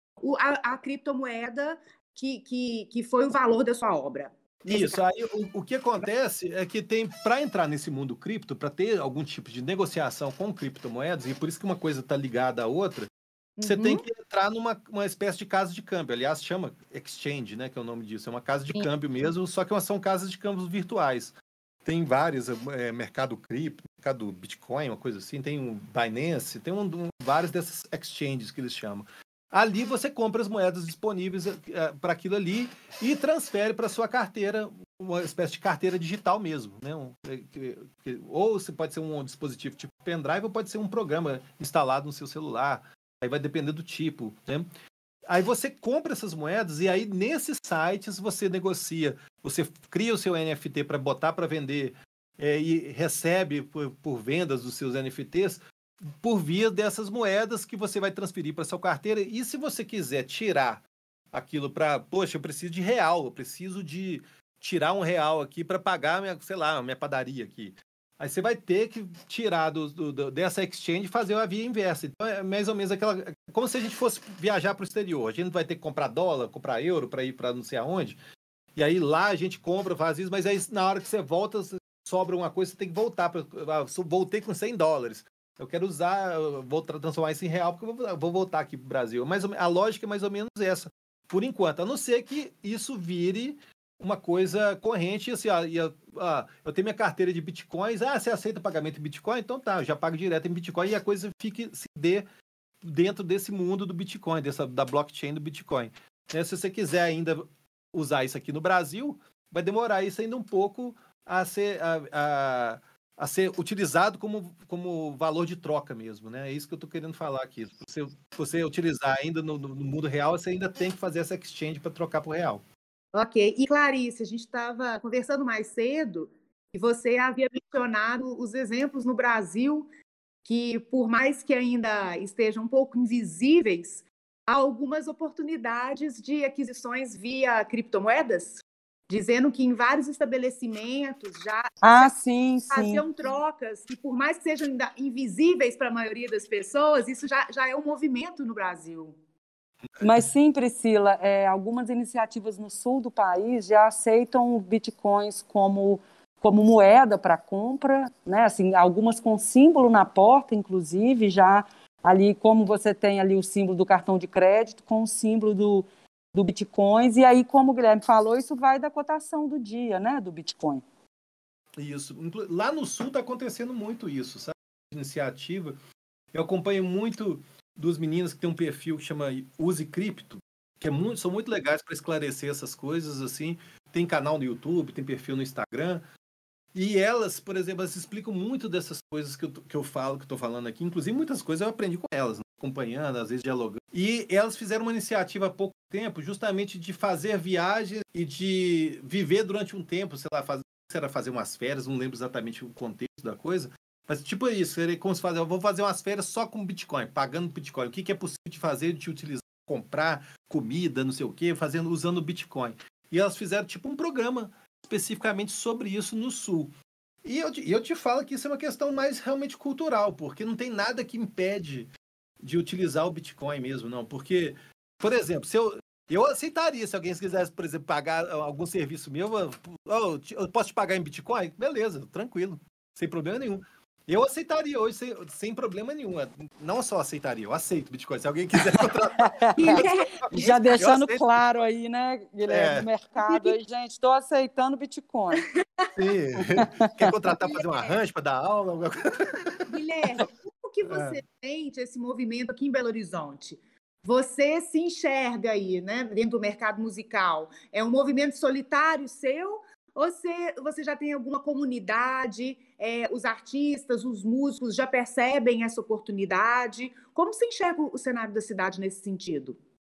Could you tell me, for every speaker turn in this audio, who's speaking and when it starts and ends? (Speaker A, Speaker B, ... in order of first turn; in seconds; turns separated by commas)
Speaker A: 0.2-5.0, Speaker B: 4.7-13.1, Speaker A: 13.6-14.0, Speaker B: 13.6-44.6, Speaker B: 45.3-78.2, Speaker B: 78.7-102.2, Speaker B: 102.8-122.6, Speaker A: 123.1-129.9, Speaker A: 130.4-142.1, Speaker C: 141.8-143.1, Speaker A: 142.7-149.2, Speaker C: 150.0-170.8, Speaker B: 171.8-175.8, Speaker B: 176.3-186.0, Speaker B: 186.7-216.7, Speaker B: 217.2-221.9, Speaker B: 222.4-241.4, Speaker C: 238.6-245.4, Speaker A: 239.6-240.2, Speaker B: 242.4-243.4, Speaker B: 245.9-250.2, Speaker C: 246.5-247.1, Speaker A: 247.4-248.0, Speaker A: 249.7-269.6, Speaker B: 250.8-251.2